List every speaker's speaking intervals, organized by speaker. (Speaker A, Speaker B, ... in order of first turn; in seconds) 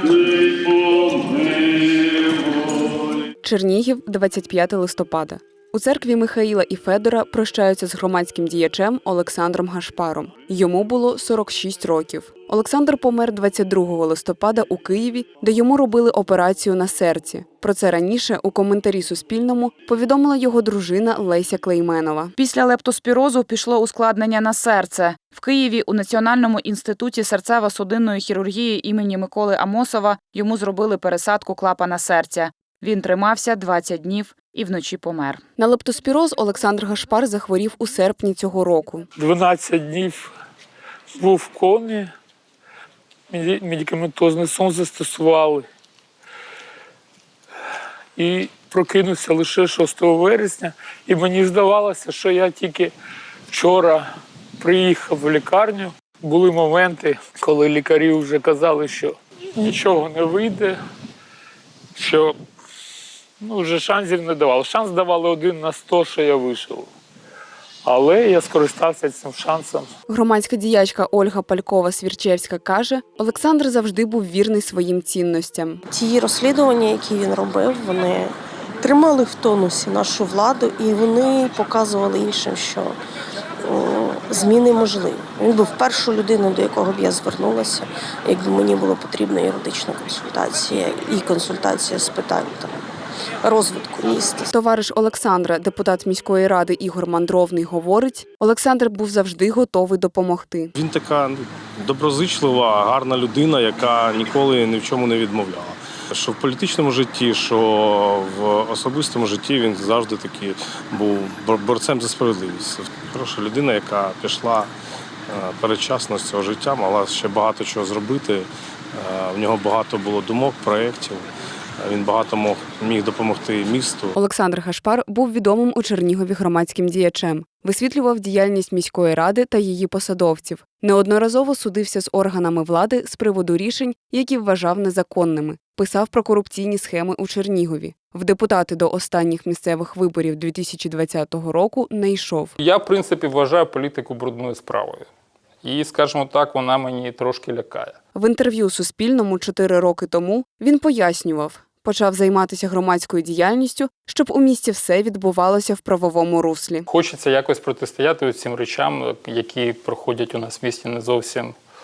Speaker A: 3.4-22.3, 35.6-39.1, 70.1-75.8, 94.5-100.7, 124.1-142.6, 148.1-156.8
Speaker B: 22.4-35.4
Speaker C: 39.1-40.3, 41.1-42.1, 43.3-45.6, 48.2-52.9, 53.5-54.1, 54.6-60.8, 62.0-62.4, 63.4-66.9, 67.8-69.9
Speaker D: 75.9-83.0, 83.6-92.8, 93.4-94.5
Speaker E: 100.8-114.7, 115.3-121.2, 121.8-124.1
Speaker F: 142.6-145.1, 145.6-148.0, 156.9-161.6